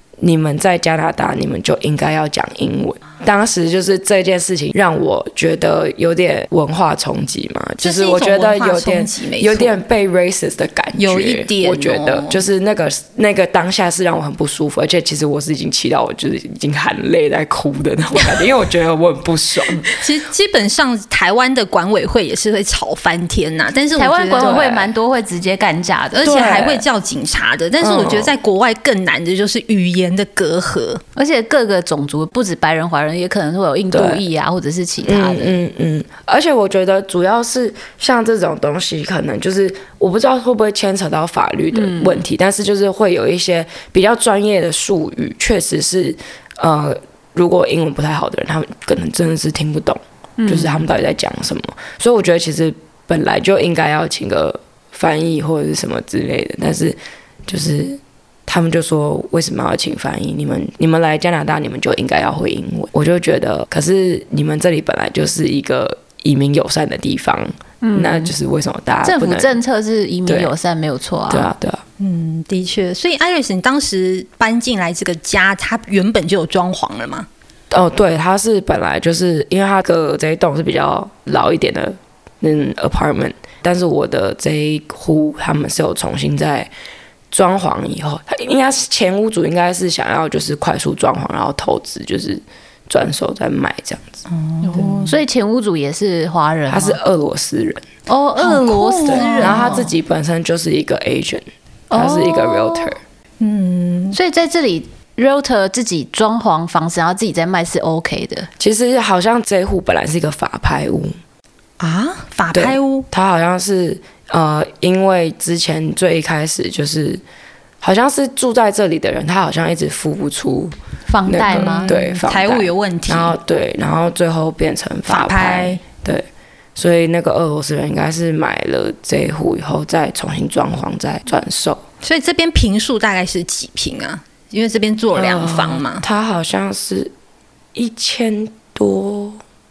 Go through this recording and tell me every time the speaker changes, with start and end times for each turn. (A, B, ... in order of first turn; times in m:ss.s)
0:00.2-0:19.9 A
0:07.8-0:09.7 B
0:11.0-0:12.4 B
0:19.9-0:24.7 B
0:24.0-0:26.5 C
0:24.4-0:24.9 A
0:26.2-0:31.0 B
0:26.2-0:26.8 A
0:27.8-0:28.3 A
0:31.2-0:35.6 C
0:33.9-0:34.2 A
0:35.0-1:09.6 A
0:41.7-0:42.2 C
0:50.4-0:50.8 C
1:07.8-1:08.3 C
1:09.0-1:11.5 C
1:10.3-1:10.5 A
1:11.3-1:11.8 A
1:12.0-1:17.3 B
1:17.7-1:26.7 A
1:27.3-1:34.2 A
1:34.3-1:35.2 B
1:34.6-1:37.0 C
1:36.7-1:37.8 A
1:38.1-1:39.9 C
1:38.4-1:39.9 B
1:39.1-1:43.0 A
1:41.9-1:42.9 C
1:43.4-1:44.2 B
1:44.1-1:48.5 C
1:48.6-1:51.2 A
1:51.8-1:53.1 B
1:52.5-1:57.2 A
1:57.8-2:00.8 A
2:01.1-2:01.9 C
2:01.3-2:11.8 A
2:01.5-2:03.4 B
2:05.1-2:05.8 B
2:12.0-2:16.0 B
2:15.2-2:17.1 A
2:17.8-2:19.4 A